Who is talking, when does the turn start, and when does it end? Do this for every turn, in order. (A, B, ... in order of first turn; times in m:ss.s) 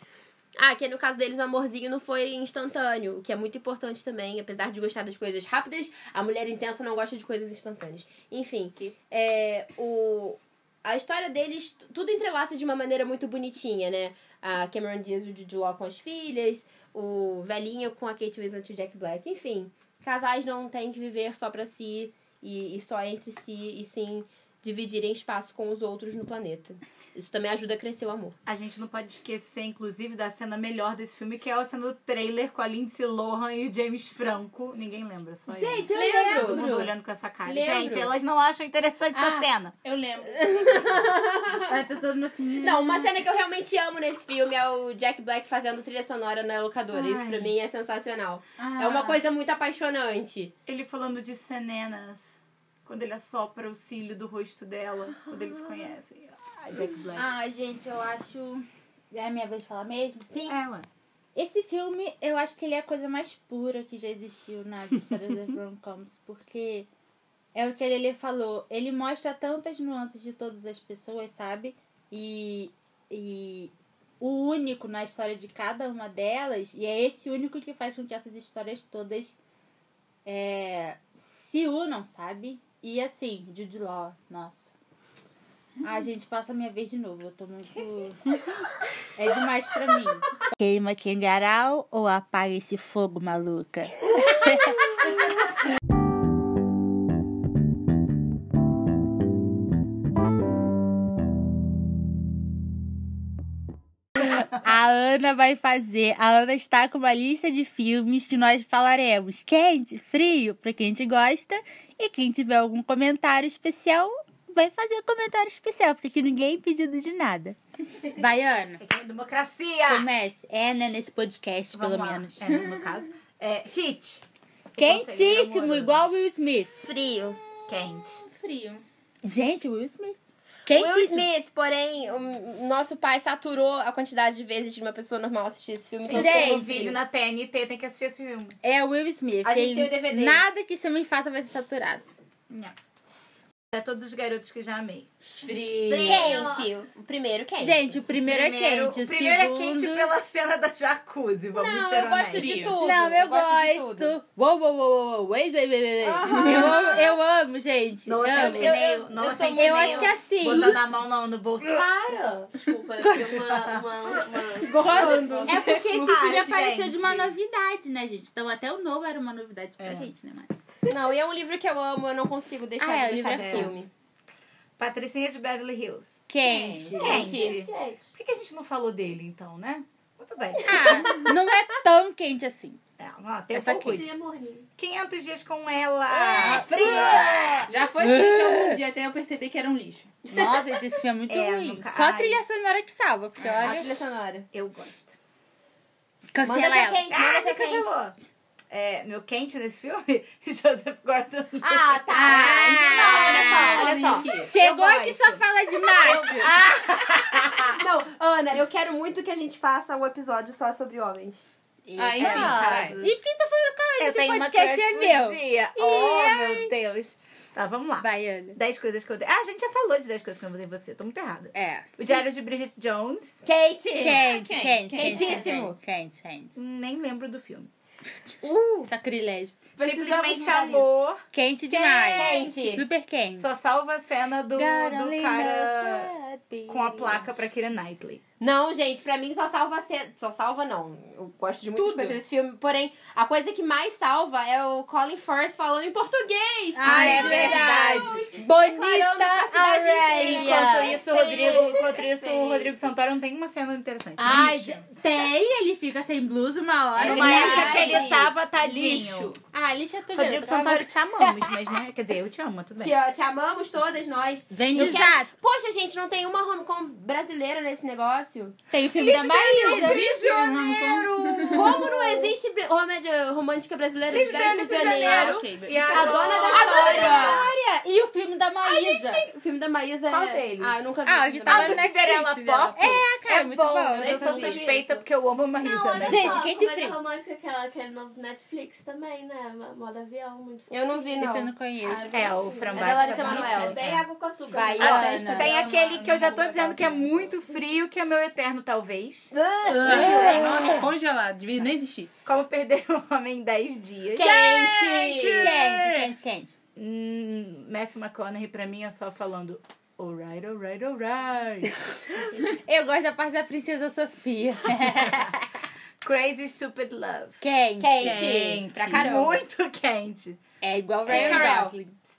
0:00.6-0:28.4 A
0:28.5-0:39.7 B
0:35.5-0:36.9 C
0:35.9-0:36.7 A
0:37.4-0:38.1 A
0:39.8-0:41.1 D
0:40.3-0:41.8 A
0:41.6-0:43.1 C
0:42.6-0:50.5 A
0:46.9-0:47.5 B
0:48.6-0:49.2 C
0:50.7-0:57.3 B
0:57.1-1:00.3 C
1:00.3-1:00.6 A
1:00.5-1:00.9 B
1:01.4-1:06.9 C
1:07.6-1:19.4 C
1:20.2-1:24.7 C
1:25.8-1:28.4 C
1:29.2-1:35.0 C
1:44.4-1:57.6 C
1:58.1-1:58.8 C
1:58.8-2:00.1 B
1:59.9-2:02.5 C
2:01.7-2:06.1 B
2:02.5-2:02.8 D
2:04.8-2:06.9 C
2:06.8-2:07.4 A
2:07.7-2:08.2 B
2:08.2-2:08.8 D
2:09.2-2:11.3 C
2:10.7-2:17.0 A
2:16.0-2:18.6 B
2:16.1-2:16.9 C
2:18.6-2:22.0 C
2:19.4-2:20.4 A
2:22.5-2:22.8 B
2:23.7-2:26.5 B
2:25.8-2:26.7 E
2:25.9-2:28.0 A
2:27.6-2:30.1 C
2:28.2-2:32.7 B
2:31.5-2:34.1 A
2:32.3-2:32.8 D
2:32.8-2:38.8 C
2:36.0-2:37.2 A
2:36.3-2:36.8 D
2:38.1-2:42.0 B
2:38.3-2:40.6 A
2:39.5-2:40.8 C
2:41.6-2:45.6 E
2:43.3-2:43.8 B
2:44.6-2:46.1 A
2:44.8-2:50.6 C
2:45.9-2:47.3 B
2:49.8-2:50.1 B
2:50.9-2:53.9 A
2:52.8-2:53.8 C
2:53.4-2:53.7 B
2:54.8-2:56.2 B
2:56.3-2:57.3 C
2:56.4-2:57.0 D
2:57.0-3:01.1 B
2:57.0-2:57.6 A
2:57.0-2:58.0 E
3:00.6-3:02.8 C
3:01.0-3:01.3 A
3:03.0-3:04.1 B
3:03.5-3:04.0 C
3:03.7-3:04.7 E
3:04.8-3:07.7 B
3:06.1-3:07.7 A
3:06.3-3:07.3 C
3:07.7-3:10.1 D
3:08.0-3:08.8 C
3:10.3-3:13.9 C
3:11.3-3:12.4 B
3:13.4-3:14.5 A
3:14.5-3:15.2 B
3:16.3-3:17.1 C
3:16.4-3:18.0 A
3:17.1-3:18.1 B
3:18.7-3:27.8 B
3:21.6-3:24.2 A
3:22.1-3:26.5 C
3:23.4-3:24.5 D
3:27.6-3:31.4 A
3:31.9-3:36.7 C
3:32.0-3:33.0 D
3:32.2-3:33.1 B
3:34.0-3:43.4 B
3:38.0-3:38.6 C
3:41.5-3:41.9 C
3:43.4-3:44.4 A
3:44.0-3:46.6 C
3:44.2-3:45.5 D
3:44.9-3:45.8 A
3:46.6-3:47.7 B
3:48.4-3:48.9 A
3:48.8-3:49.5 C
3:49.8-3:51.0 A
3:49.8-3:51.2 B
3:51.3-3:53.5 C
3:51.7-3:52.9 A
3:53.4-3:56.1 B
3:54.6-3:57.3 C
3:56.7-3:58.2 B
3:58.4-4:12.6 A
4:01.8-4:02.2 D
4:06.8-4:11.0 C
4:06.8-4:08.2 B
4:10.1-4:14.8 B
4:11.1-4:12.7 E
4:14.2-4:18.1 C
4:17.0-4:18.3 A
4:17.0-4:19.4 B
4:17.4-4:18.0 D
4:18.6-4:19.4 D
4:19.5-4:21.4 C
4:20.1-4:23.0 B
4:22.8-4:28.6 A
4:24.5-4:25.3 C
4:28.7-4:30.0 C
4:29.0-4:32.3 B
4:29.5-4:31.8 D
4:31.5-4:37.5 A
4:34.1-4:37.5 B
4:34.3-4:36.5 D
4:36.5-4:37.1 E
4:36.5-4:39.3 C
4:38.6-4:41.9 A
4:40.1-4:40.9 B
4:41.0-4:44.6 C
4:41.5-4:46.4 B
4:43.9-4:45.1 E
4:45.6-4:51.1 E
4:46.0-4:47.0 C
4:50.7-4:51.5 A
4:51.2-4:52.1 C
4:51.8-4:57.4 E
4:52.1-4:54.0 B
4:52.7-4:53.8 A
4:54.5-4:55.5 C
4:54.8-4:56.0 D
4:55.0-4:55.3 A
4:55.0-4:59.3 B
4:59.5-5:00.8 A
4:59.7-5:02.1 D
4:59.8-5:00.8 C
4:59.9-5:00.4 B
5:02.2-5:06.1 B
5:04.1-5:05.6 A
5:05.4-5:06.6 C
5:06.8-5:11.8 B
5:12.5-5:15.4 C
5:14.8-5:15.3 B
5:16.0-5:17.4 B
5:17.4-5:18.2 C
5:17.8-5:19.4 A
5:18.0-5:19.2 D
5:18.8-5:20.4 B
5:20.6-5:22.0 C
5:21.0-5:21.7 B
5:21.1-5:21.7 A